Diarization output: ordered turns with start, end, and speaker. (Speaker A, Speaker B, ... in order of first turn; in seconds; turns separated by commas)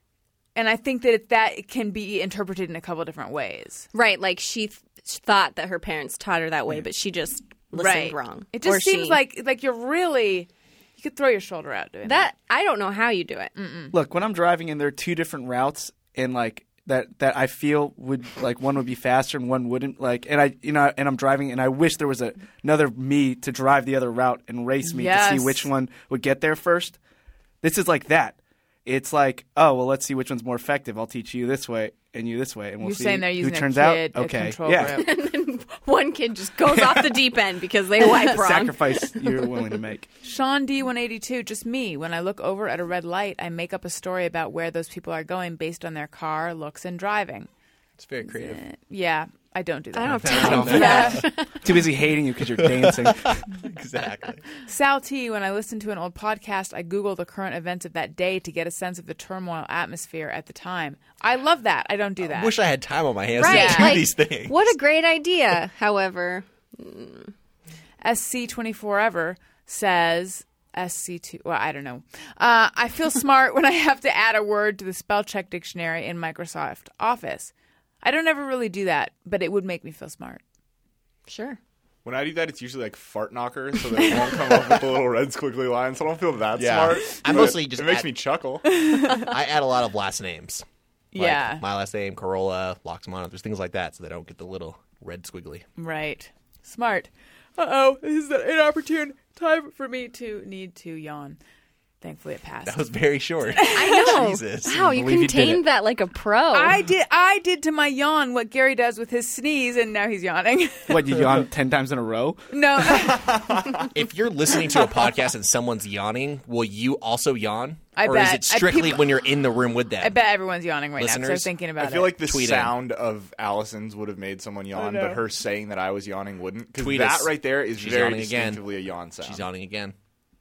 Speaker A: 0.5-3.9, Speaker B: 3.9-9.2, Speaker A: 7.7-12.3, Speaker B: 12.0-13.5, Speaker A: 13.6-13.9, Speaker C: 13.9-27.0, Speaker A: 24.8-25.7, Speaker C: 27.6-34.9, Speaker A: 32.8-35.1, Speaker B: 34.8-39.5, Speaker C: 36.6-37.3, Speaker C: 38.0-40.1, Speaker A: 40.2-47.5, Speaker D: 48.0-48.6, Speaker A: 48.2-51.3, Speaker B: 49.9-51.8, Speaker D: 50.2-51.2, Speaker C: 50.4-53.4, Speaker D: 52.6-54.4, Speaker A: 54.6-62.5, Speaker D: 62.2-64.7, Speaker B: 63.4-67.3, Speaker A: 63.4-64.0, Speaker A: 68.0-80.4, Speaker B: 81.3-81.6, Speaker E: 82.0-88.7, Speaker D: 86.5-88.1, Speaker A: 88.7-89.3, Speaker D: 89.1-90.6, Speaker A: 91.1-91.6, Speaker D: 91.2-95.6, Speaker A: 95.8-101.4, Speaker A: 102.0-102.8, Speaker D: 102.7-104.8, Speaker A: 103.5-104.2, Speaker B: 103.7-106.8, Speaker C: 104.9-105.6, Speaker A: 106.5-111.2, Speaker C: 110.9-112.4, Speaker A: 112.5-113.3, Speaker E: 112.9-113.9, Speaker D: 113.9-120.2, Speaker A: 118.0-119.2, Speaker A: 120.0-122.2, Speaker D: 121.0-121.5, Speaker E: 121.8-129.4, Speaker D: 122.2-122.8, Speaker A: 124.7-125.2, Speaker D: 126.8-128.6, Speaker D: 129.2-129.9